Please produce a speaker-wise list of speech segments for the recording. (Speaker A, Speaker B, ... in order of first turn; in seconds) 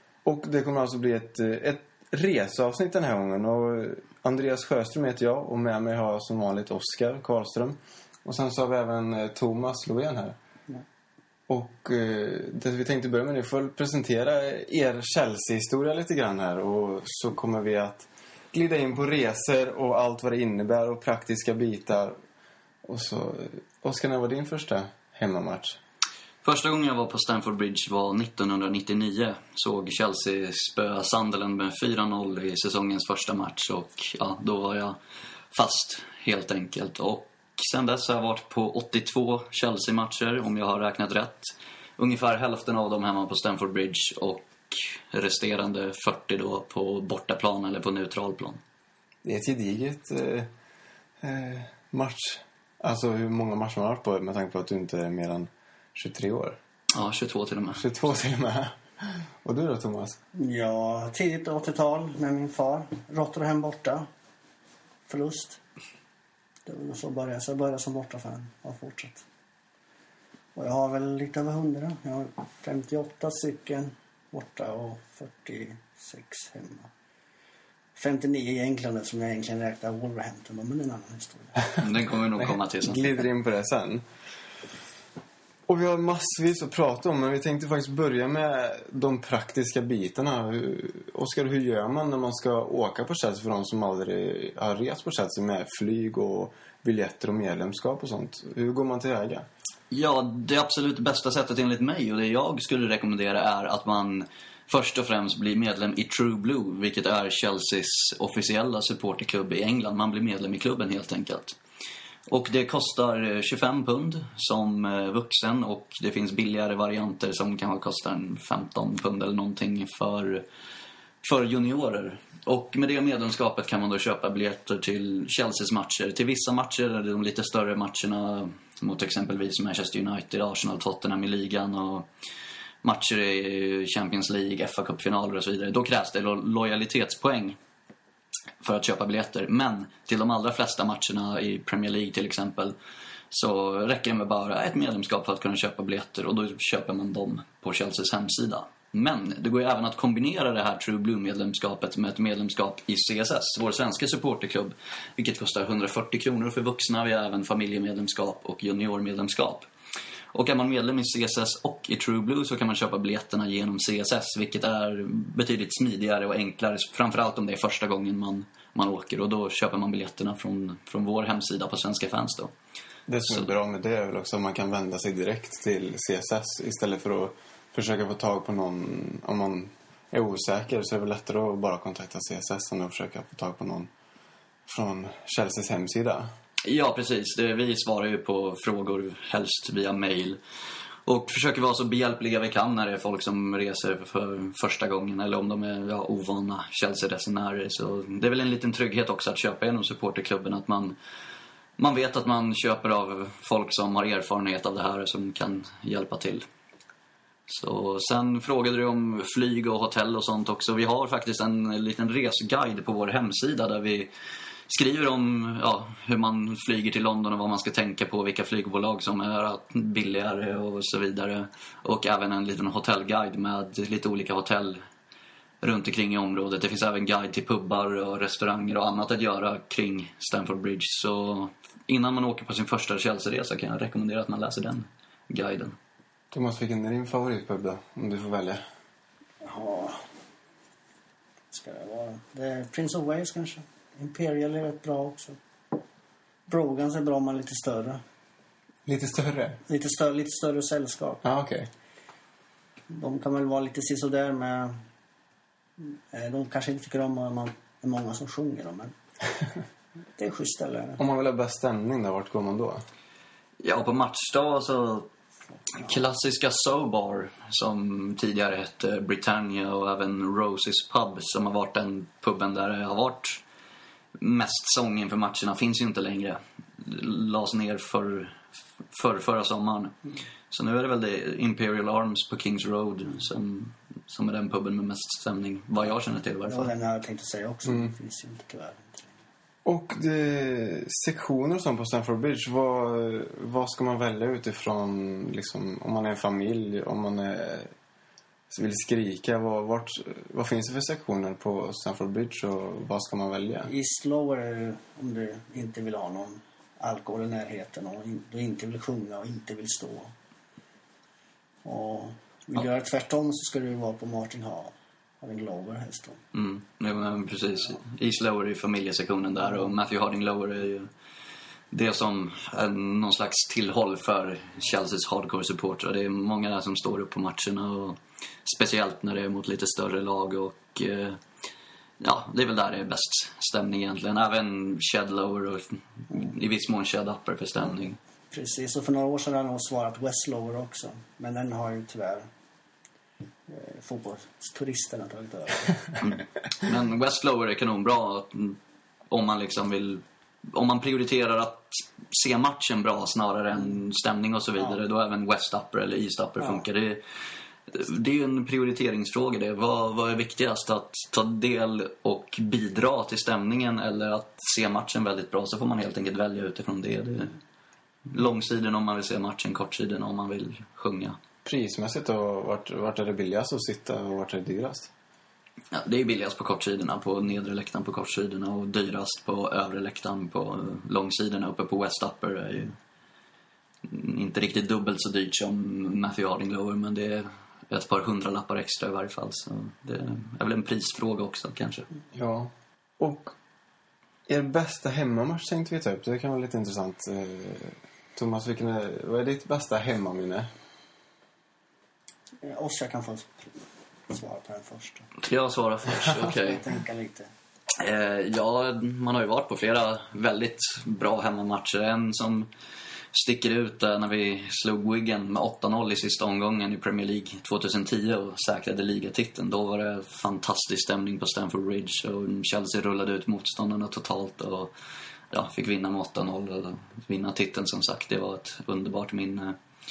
Speaker A: 0.2-10.3, 11.5-22.1, 22.8-25.8, 49.2-50.5, 51.2-56.6, 57.8-60.2, 82.4-84.0, 85.7-99.5, 173.1-183.9, 184.7-186.3, 236.3-238.6, 248.8-249.6, 251.2-251.7, 261.0-262.8, 289.6-297.7, 298.5-303.7, 371.4-374.9, 392.1-393.3, 394.3-400.5
Speaker B: 26.4-35.0, 35.5-48.6, 56.9-57.9, 81.8-83.1, 99.9-111.5, 112.3-120.4, 121.2-132.1, 132.8-137.6, 138.6-142.8, 143.3-159.7, 160.3-172.5, 186.6-190.4, 191.0-200.9, 201.8-206.4, 207.5-214.1, 214.7-224.8, 225.6-235.8, 263.6-265.1, 265.8-273.4, 274.2-278.4, 278.9-280.0, 280.5-286.7, 316.3-320.9, 321.7-331.2, 332.0-338.0, 346.0-348.6, 349.1-357.0, 357.7-367.4, 368.1-371.2, 375.7-382.7, 383.8-391.9, 405.2-406.6, 407.8-412.5, 413.1-424.7, 425.3-429.5
Speaker C: 60.3-64.1, 65.1-65.6, 66.7-69.2, 70.5-76.9, 78.0-81.6, 239.4-240.0, 241.5-245.4, 246.5-248.0, 249.7-251.2, 252.9-254.8, 255.8-258.9, 260.2-261.0, 286.5-289.1, 303.6-310.1, 311.6-316.2, 338.3-342.3, 343.5-345.9, 402.4-405.1, 406.2-407.3